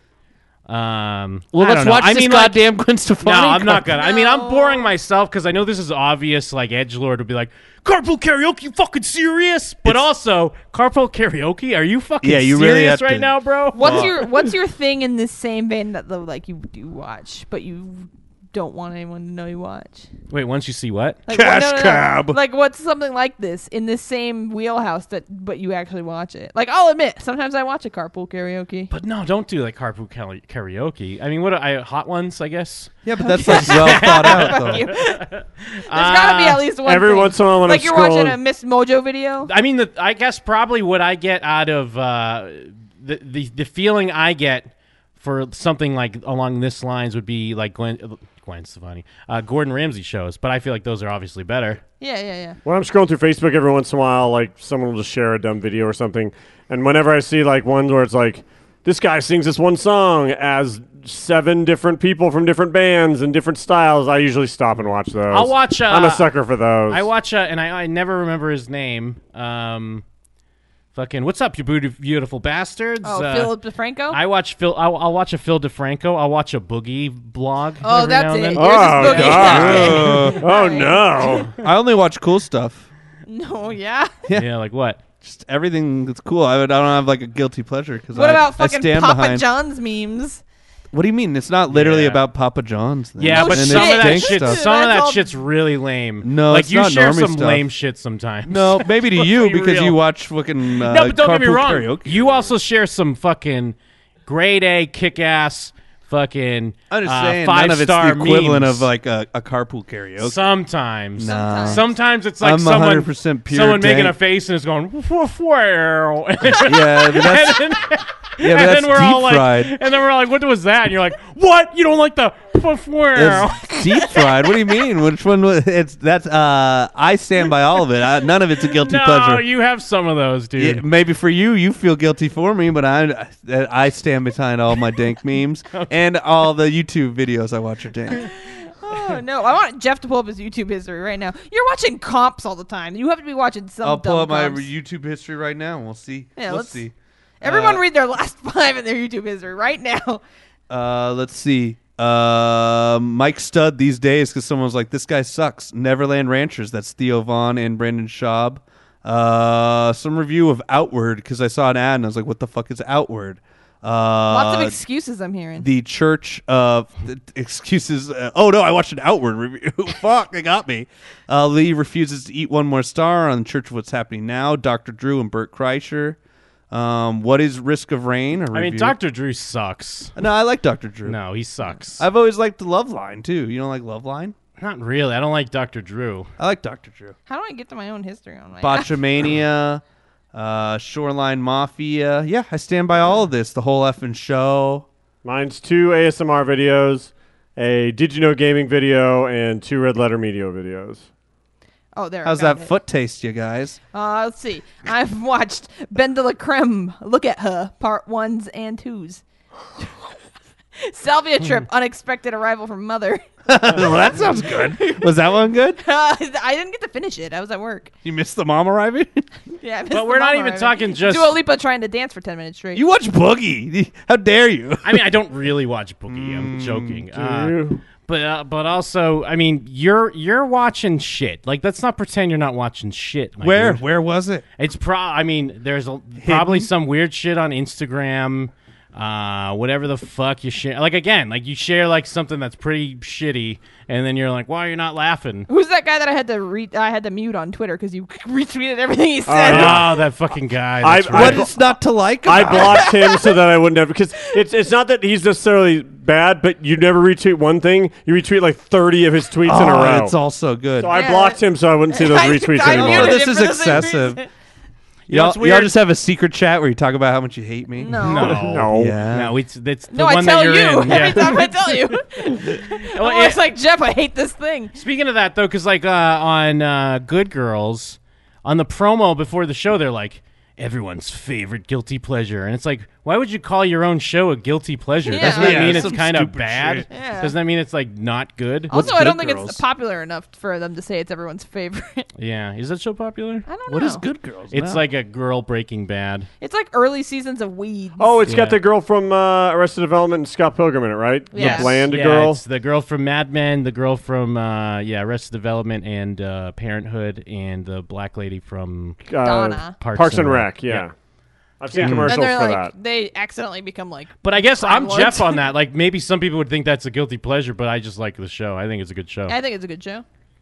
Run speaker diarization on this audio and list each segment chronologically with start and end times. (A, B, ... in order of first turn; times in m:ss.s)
0:00.7-0:02.7 A
0:01.5-0:03.9 B
0:03.2-0:14.1 A
0:04.0-0:04.9 C
0:12.2-0:14.2 B
0:13.7-0:20.1 C
0:20.3-0:21.2 A
0:21.3-0:28.9 C
0:21.3-0:22.4 B
0:28.9-0:36.6 A
0:33.0-0:34.9 B
0:33.2-0:35.3 C
0:35.9-0:39.5 C
0:36.8-0:38.4 D
0:39.5-0:51.8 A
0:52.0-0:52.6 C
0:52.6-1:07.1 D
1:05.3-1:06.3 A
1:06.9-1:10.0 A
1:11.0-1:13.6 A
1:13.0-1:14.2 C
1:14.1-1:19.9 A
1:17.8-1:21.5 C
1:18.6-1:21.5 D
1:19.0-1:20.4 B
1:21.6-1:22.9 B
1:23.3-1:24.1 C
1:24.4-1:25.0 A
1:25.2-1:29.5 B
1:28.1-1:30.4 C
1:30.9-1:34.6 B
1:31.7-1:32.2 A
1:33.2-1:40.0 A
1:33.3-1:35.3 C
1:36.2-1:37.7 B
1:38.5-1:42.5 B
1:40.8-1:48.9 A
1:46.9-1:50.4 B
1:50.2-2:04.1 A
1:51.2-1:54.2 B
1:51.2-1:51.8 C
1:56.6-1:57.7 B
1:58.4-1:59.7 B
2:03.1-2:09.5 B
2:08.6-2:10.8 A
2:10.6-2:18.3 B
2:18.1-2:24.7 C
2:23.8-2:27.8 B
2:26.4-2:26.8 C
2:27.4-2:30.2 C
2:30.7-2:44.8 B
2:44.3-2:45.7 C
2:45.6-2:56.2 B
2:56.7-2:59.0 B
2:58.5-3:00.1 A
3:00.2-3:01.2 B
3:01.1-3:02.0 A
3:02.0-3:04.4 B
3:04.6-3:06.3 A
3:06.4-3:07.1 B
3:07.3-3:09.0 C
3:08.6-3:09.8 B
3:10.3-3:14.9 B
3:15.2-3:21.1 D
3:22.0-3:22.7 C
3:22.2-3:23.8 B
3:23.9-3:29.2 C
3:30.8-3:37.9 C
3:33.5-3:35.8 B
3:38.0-3:39.2 B
3:39.6-3:42.8 C
3:39.9-3:41.4 A
3:42.8-3:45.0 B
3:44.8-3:53.9 A
3:46.1-3:47.0 B
3:47.1-3:47.8 D
3:53.4-3:54.4 B
3:54.6-4:05.5 A
3:56.2-3:56.7 B
4:05.5-4:09.8 C
4:09.3-4:09.9 D
4:09.5-4:11.5 A
4:10.8-4:11.6 D
4:11.1-4:13.0 B
4:12.2-4:20.1 D
4:12.4-4:13.3 C
4:19.4-4:21.0 B
4:20.8-4:23.2 D
4:20.9-4:21.4 C
4:21.9-4:24.3 C
4:22.7-4:24.2 B
4:25.1-4:25.8 A
4:25.1-4:29.4 B
4:27.8-4:28.5 C
4:28.0-4:33.4 A
4:28.4-4:29.0 D
4:29.9-4:34.7 C
4:34.8-4:49.6 A
4:45.1-4:46.0 C
4:45.1-4:46.9 B
4:46.9-4:47.4 C
4:48.7-4:52.1 C
4:48.7-4:49.2 B
4:52.2-4:53.5 A
4:53.5-4:54.0 C
4:53.7-4:54.8 B
4:54.5-4:56.3 A
4:56.4-4:58.2 C
4:58.0-5:02.4 D
4:58.3-4:58.6 A
5:01.3-5:01.8 C
5:01.4-5:09.2 A
5:09.1-5:10.9 D
5:09.2-5:09.8 C
5:09.8-5:10.9 A
5:11.6-5:12.7 D
5:11.8-5:12.2 B
5:11.8-5:15.4 C
5:14.2-5:19.4 A
5:19.3-5:20.0 C